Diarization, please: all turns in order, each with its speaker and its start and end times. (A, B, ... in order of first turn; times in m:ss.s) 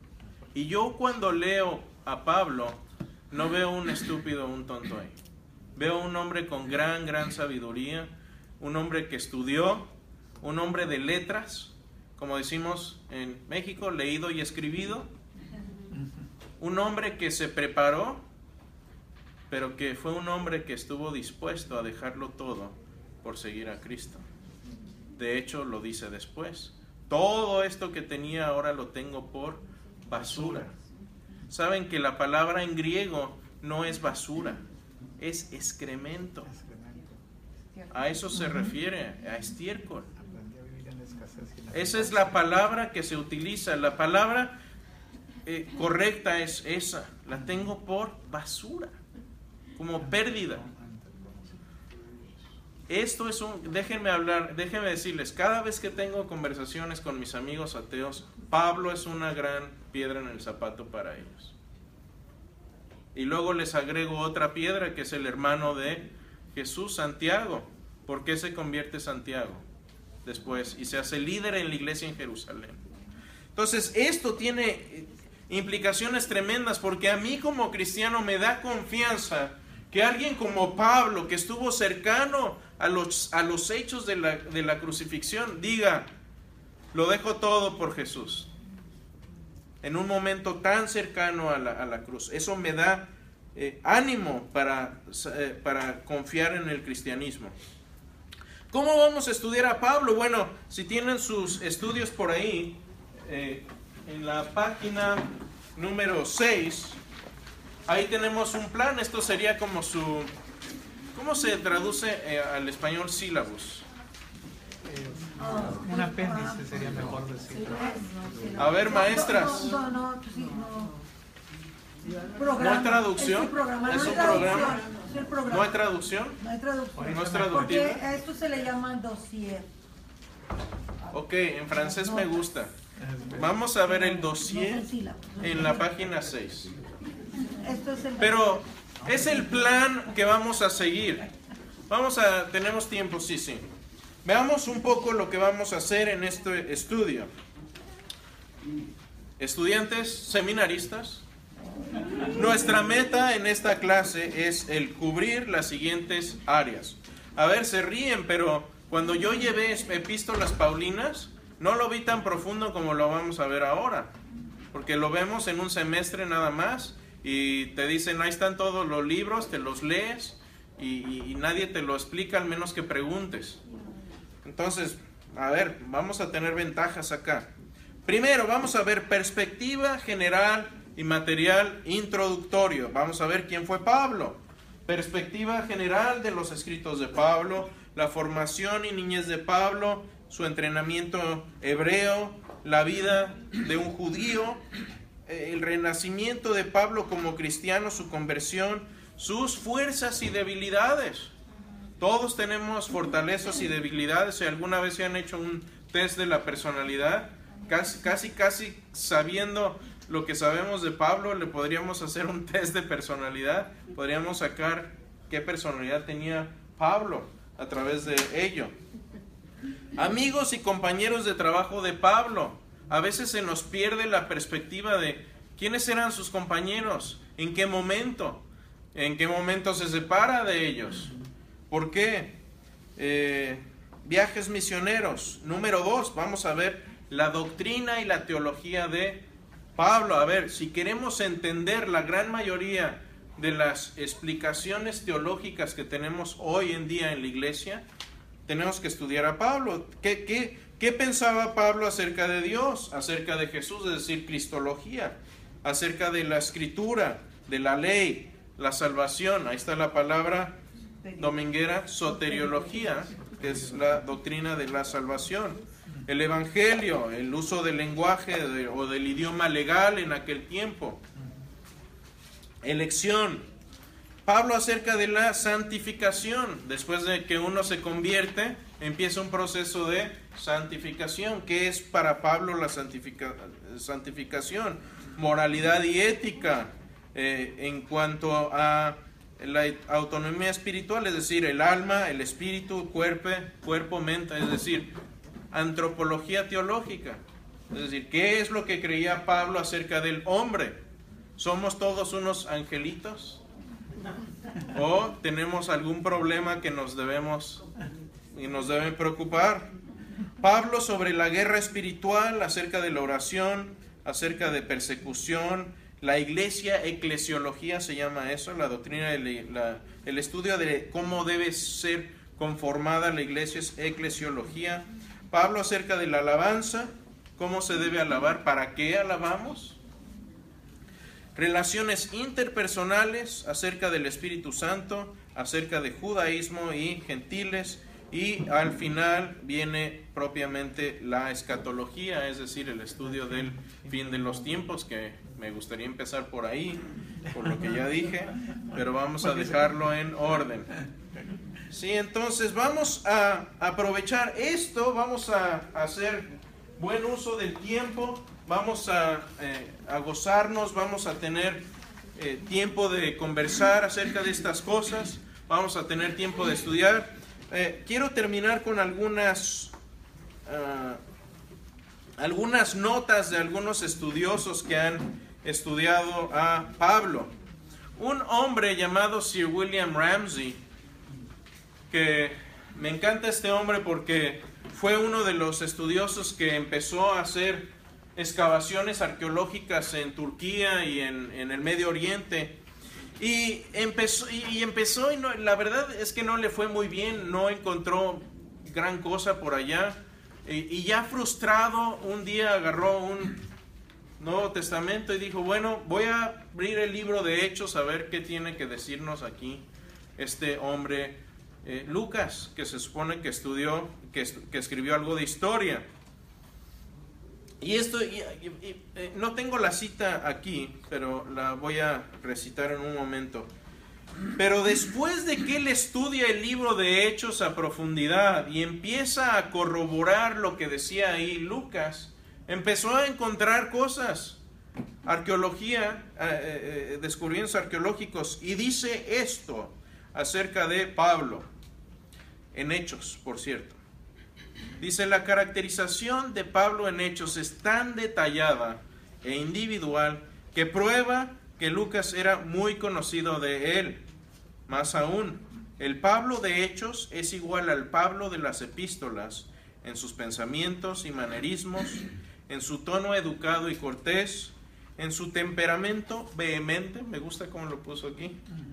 0:00.5-0:02.8 A
0:03.3-0:05.2 A
0:05.8-0:15.1 A
0:16.6-0:18.2 A
0:19.5-0:24.2 A
0:25.2-0:30.7 A
0:30.1-0:30.7 B
0:31.5-0:34.6 A
0:35.2-0:36.5 A
0:36.4-0:37.2 B
0:37.9-0:40.1 A
0:40.2-0:42.5 B
0:41.7-0:44.6 A
0:45.4-0:48.9 A
0:49.8-0:50.6 A
0:50.0-0:51.6 B
0:52.9-1:01.5 A
1:03.1-1:09.6 A
1:10.2-1:12.8 A
1:13.5-1:26.1 A
1:26.9-1:28.5 A
1:29.8-1:37.5 A
1:38.7-1:47.0 A
1:47.9-1:50.3 A
1:51.1-1:53.8 A
1:54.8-1:58.0 B
1:55.4-1:56.6 C
1:57.6-2:01.0 C
1:58.6-1:59.8 A
2:02.4-2:05.8 C
2:02.6-2:04.9 A
2:05.5-2:06.4 A
2:06.4-2:09.7 C
2:06.9-2:07.8 B
2:07.1-2:08.0 A
2:11.1-2:12.7 A
2:11.9-2:12.3 C
2:13.0-2:13.5 B
2:13.3-2:14.9 A
2:13.9-2:15.8 C
2:15.4-2:16.7 A
2:17.6-2:18.4 C
2:18.2-2:21.2 A
2:21.9-2:23.6 A
2:24.2-2:27.3 A
2:29.4-2:31.2 A
2:32.3-2:44.1 A
2:44.7-2:53.6 A
2:54.4-2:57.5 A
2:58.0-3:14.6 A
3:15.3-3:21.3 A
3:22.0-3:38.7 A
3:40.0-3:51.1 A
3:51.7-3:52.4 A
3:53.0-3:59.2 A
3:59.8-4:07.8 A
4:08.4-4:20.6 A
4:21.0-4:21.4 C
4:21.2-4:31.0 A
4:22.2-4:23.0 C
4:32.6-4:33.5 A
4:34.2-4:54.9 A
4:55.5-5:00.8 A
5:01.4-5:03.4 A
5:04.7-5:07.6 A
5:08.3-5:09.7 A
5:10.4-5:29.8 A
5:31.4-5:50.8 A
5:43.1-5:44.4 B
5:49.4-5:49.7 B
5:51.7-6:09.7 A
6:10.4-6:11.0 A
6:12.2-6:17.3 A
6:18.0-6:20.6 A
6:21.9-6:32.6 A
6:33.2-6:43.4 A
6:44.2-6:49.6 A
6:50.2-6:55.8 A
6:57.6-7:03.5 A
7:04.4-7:14.4 A
7:15.0-7:21.5 A
7:22.5-7:23.8 A
7:24.8-7:34.0 A
7:34.7-7:48.4 A